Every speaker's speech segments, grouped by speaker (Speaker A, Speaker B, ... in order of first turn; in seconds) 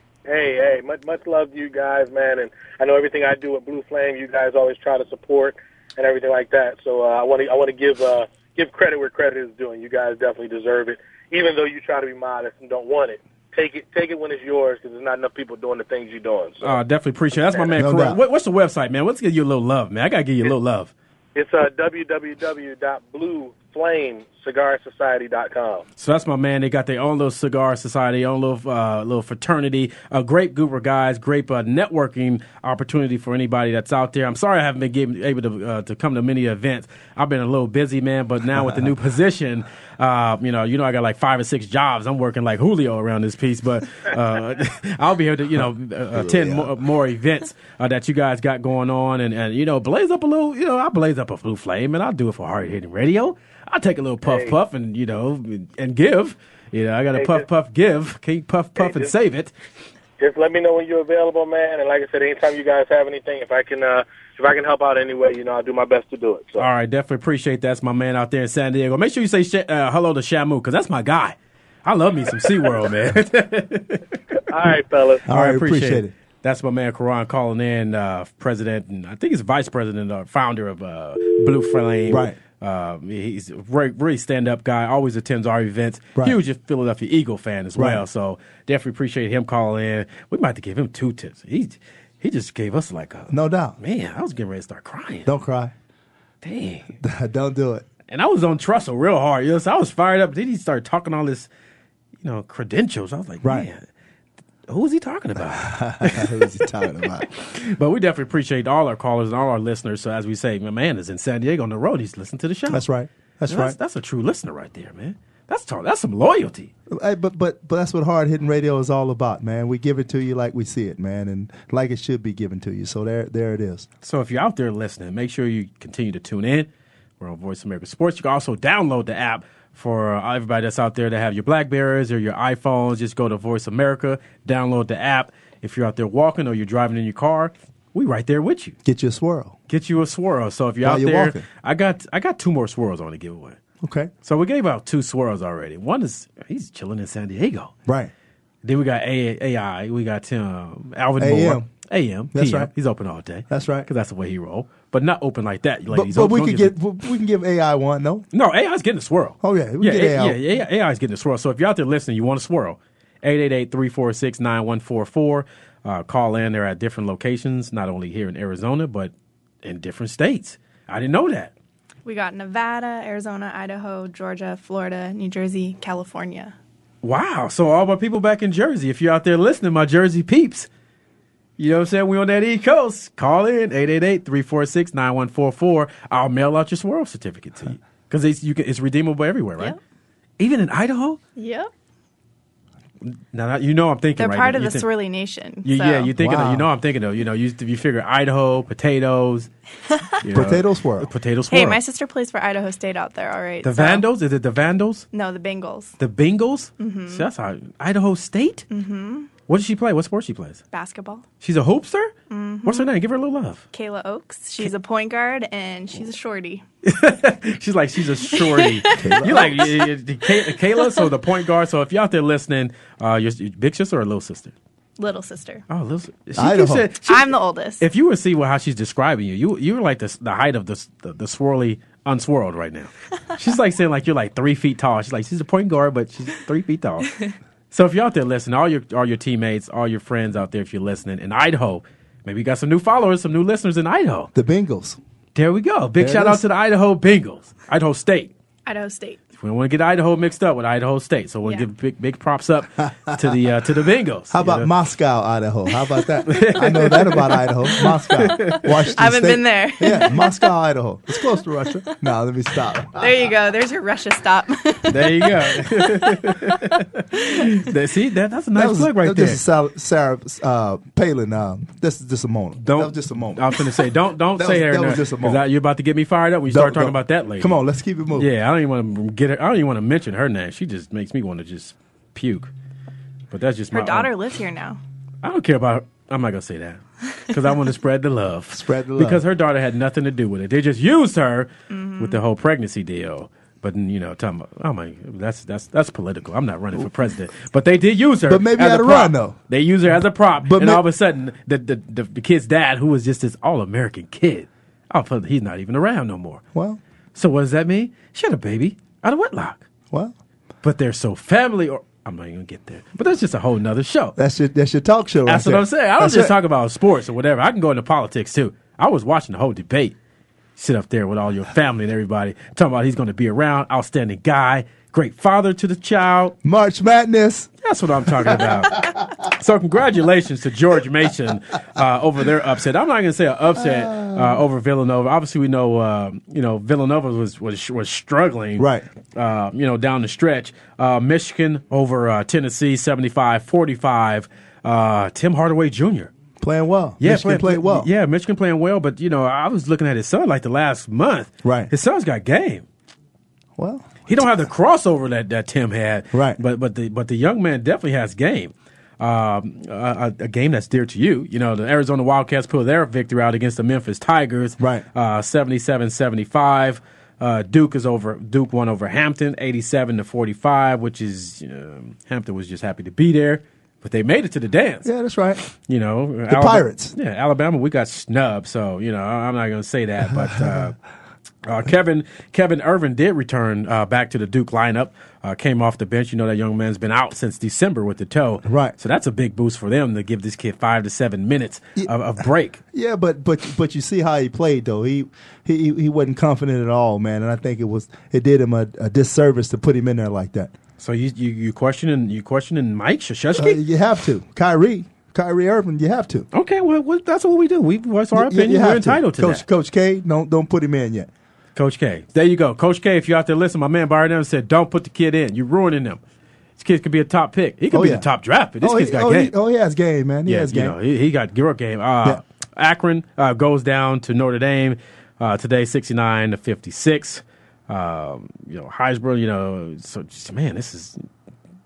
Speaker A: 0.2-16.8, 17.3-17.7, 21.3-25.8, 54.2-54.5, 57.1-57.4, 58.8-59.1, 60.2-66.7, 74.5-75.2
Speaker B: 16.6-20.9, 26.0-59.5, 66.6-74.0, 75.3-95.3, 96.4-96.9, 98.1-101.5, 102.2-103.8, 104.7-106.5, 107.4-112.8, 113.5-116.7, 124.0-126.7, 127.2-138.7, 139.7-143.6, 144.2-147.7, 148.6-156.7, 158.3-169.1, 169.6-171.5, 177.0-180.7, 181.6-189.8, 190.4-191.2, 193.1-194.9, 195.6-199.5, 200.2-201.8, 203.6-205.1, 206.0-208.7, 209.5-210.6, 211.4-213.6, 216.8-224.5, 225.7-244.3, 245.3-248.3, 249.4-254.7, 256.3-258.7, 264.9-269.4, 272.6-277.6, 278.1-282.5, 283.3-284.1, 285.2-306.4, 307.1-309.6, 310.6-314.1, 315.2-319.9, 320.6-326.4, 327.6-346.1, 347.0-352.6, 354.1-374.9, 375.5-380.7, 381.4-392.6, 400.8-403.6, 406.3-409.4, 411.6-416.0, 416.6-419.3, 420.2-431.0
Speaker C: 17.8-18.2, 38.5-38.9, 46.1-46.7, 75.2-76.1, 82.1-82.4, 87.8-88.0, 93.3-93.8, 95.2-95.7, 97.0-97.8, 103.4-103.7, 105.5-107.3, 112.7-113.8, 116.9-123.9, 138.8-139.5, 140.8-141.4, 143.8-144.1, 151.2-151.7, 152.3-152.7, 153.5-153.9, 155.9-158.2, 159.4-160.4, 196.2-196.7, 200.3-201.1, 219.0-219.7, 226.4-226.9, 244.3-245.0, 246.0-246.4, 254.3-263.1, 268.5-273.6, 274.4-275.4, 276.5-278.3, 288.5-289.2, 298.3-299.4, 300.4-300.8, 306.5-306.8, 314.2-316.3, 326.4-327.5, 328.2-329.0, 333.6-334.4, 338.6-338.8, 346.4-347.9, 351.4-351.7, 353.6-354.3, 356.1-356.4, 364.6-364.8, 374.8-375.4, 376.3-376.9, 380.3-380.6, 388.4-388.7, 392.7-400.5, 403.3-406.3, 408.1-411.1, 417.7-418.1, 418.6-420.8
Speaker D: 172.0-176.5, 191.3-191.7, 194.2-196.1, 201.5-204.0, 205.1-205.9, 206.8-207.2, 208.7-209.3, 210.7-211.2, 212.3-212.9, 213.7-216.6, 218.3-219.3, 220.8-221.0, 225.0-225.6, 227.1-227.8, 248.7-249.2, 257.8-260.5, 262.9-267.5, 283.7-284.8, 291.7-292.2